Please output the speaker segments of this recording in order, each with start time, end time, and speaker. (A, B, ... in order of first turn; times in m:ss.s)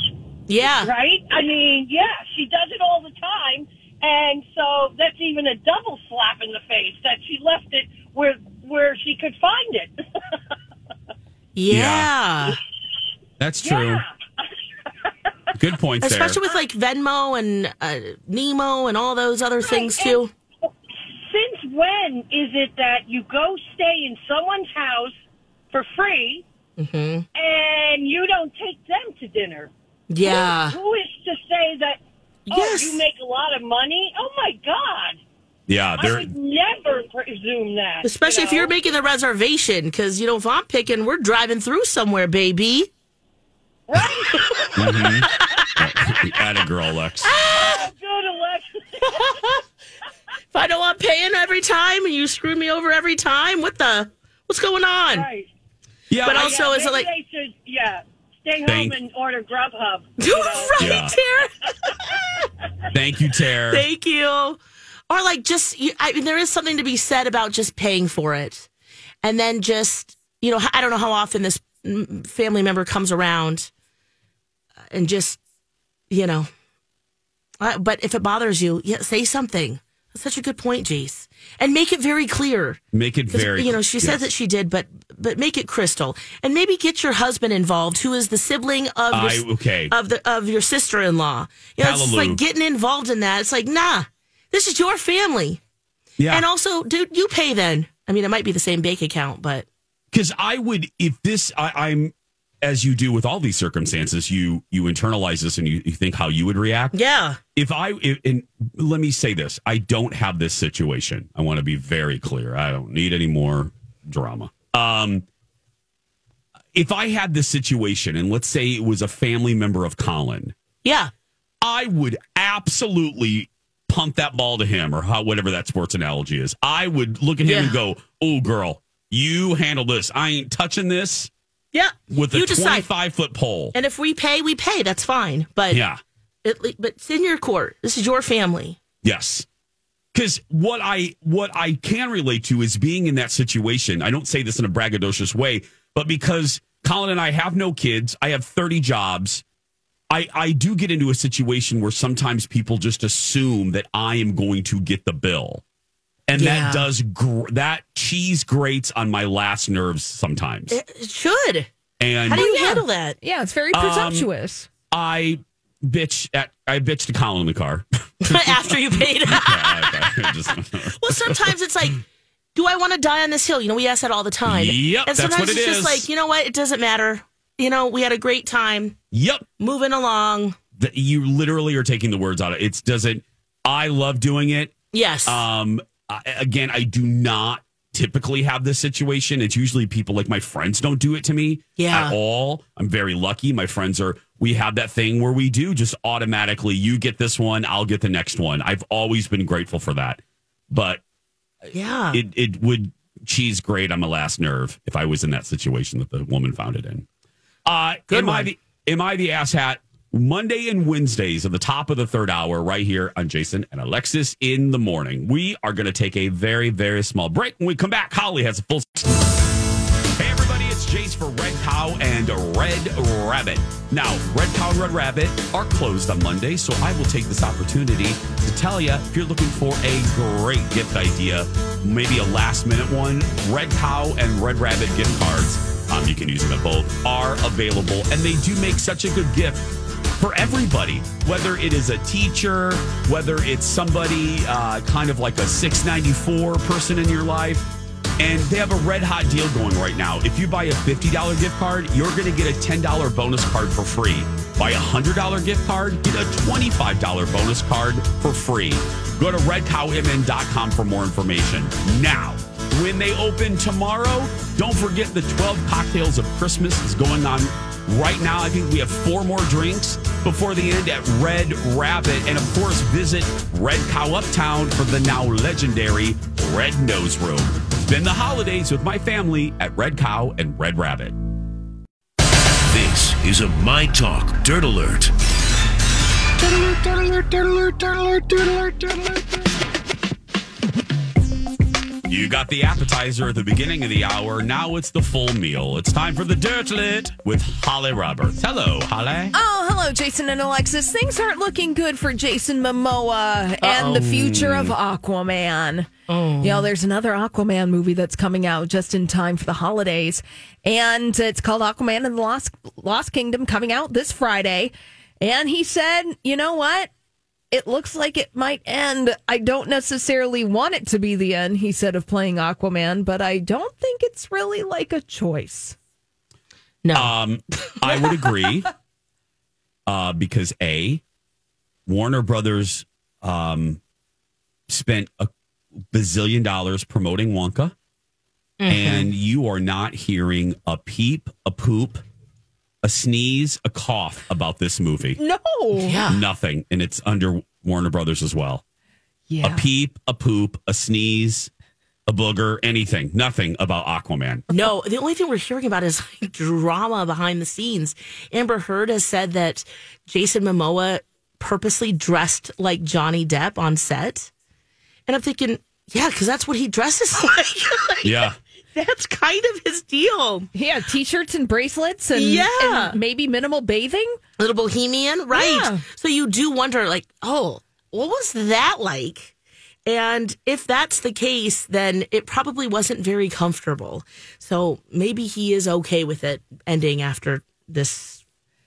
0:00.5-0:00.9 A
0:00.8-0:09.9 B
0:11.6-0:12.6 A
0:11.7-0:12.1 C
0:13.4-0:14.0 C
0:13.6-0:14.1 B
0:15.5-0:16.4 C
0:16.0-0:20.3 A
0:19.6-0:20.2 B
0:21.3-0:25.1 B
0:25.7-0:26.4 B
0:26.8-0:27.2 A
0:27.4-0:29.7 B
0:30.1-0:30.8 A
0:30.2-0:32.0 B
0:32.5-0:33.0 A
0:32.5-0:35.2 B
0:35.7-0:36.3 C
0:36.0-0:38.7 B
0:38.0-0:42.9 A
0:43.9-0:45.1 B
0:44.1-0:45.8 A
0:44.7-0:47.3 C
0:47.2-0:47.9 A
0:47.4-0:49.6 B
0:49.1-0:49.6 A
0:50.5-0:55.3 A
0:55.2-0:55.5 B
0:56.1-0:56.6 C
0:56.2-1:01.1 B
0:56.2-0:57.1 A
0:58.6-0:59.0 C
1:00.2-1:01.7 A
1:00.8-1:01.2 C
1:02.9-1:03.8 C
1:03.7-1:04.6 A
1:05.1-1:08.7 A
1:09.2-1:13.7 A
1:14.9-1:15.4 A
1:16.1-1:16.5 A
1:17.6-1:35.6 A
1:22.9-1:24.2 C
1:29.1-1:29.9 C
1:31.8-1:32.4 C
1:36.2-1:36.4 C
1:36.3-1:39.6 A
1:40.1-1:46.9 C
1:46.9-1:47.4 A
1:47.6-1:55.2 C
1:56.7-2:00.5 C
2:00.8-2:01.1 A
2:01.6-2:11.3 C
2:07.4-2:07.8 A
2:11.7-2:12.9 A
2:12.1-2:13.7 C
2:13.7-2:15.8 A
2:15.7-2:16.0 C
2:16.4-2:18.8 A
2:19.0-2:19.4 C
2:20.1-2:29.4 C
2:30.1-2:35.6 C
2:36.3-2:40.8 C
2:36.4-2:36.9 A
2:40.7-2:41.7 A
2:42.0-2:42.5 C
2:42.3-2:43.2 A
2:42.3-2:44.7 D
2:43.7-2:44.3 C
2:44.9-2:51.5 C
2:48.2-2:52.0 A
2:52.5-2:59.0 A
2:54.4-2:56.1 C
2:59.1-2:59.4 C
2:59.6-3:00.6 A
3:00.8-3:21.0 C
3:04.9-3:05.4 A
3:11.8-3:12.2 A
3:21.7-3:22.2 A
3:22.1-3:27.0 C
3:27.6-3:39.1 C
3:28.1-3:28.5 A
3:40.2-3:59.6 C
4:00.2-4:07.7 C
4:08.2-4:41.2 C
4:42.7-4:45.1 E
4:52.1-4:59.3 C
4:59.3-5:05.9 D
5:03.6-5:04.2 A
5:04.1-5:04.7 C
5:06.1-5:06.7 A
5:06.4-5:16.9 D
5:17.5-5:25.8 D
5:26.8-5:27.1 A
5:26.9-5:28.7 C
5:29.9-5:31.0 C
5:31.9-5:33.8 C
5:34.7-5:35.3 C
5:35.9-5:37.7 C
5:38.6-5:39.1 A
5:38.7-5:42.0 C
5:42.8-5:45.2 C
5:45.2-5:46.0 D
5:45.8-5:46.2 A
5:46.1-5:48.6 C
5:49.3-5:49.7 D
5:49.4-5:51.5 C
5:52.1-5:54.4 C
5:54.5-6:04.3 A
6:05.1-6:10.5 A
6:08.0-6:08.4 C
6:10.5-6:14.2 D
6:12.1-6:13.0 A
6:14.4-6:19.3 A
6:15.3-6:15.8 D
6:19.8-6:28.2 A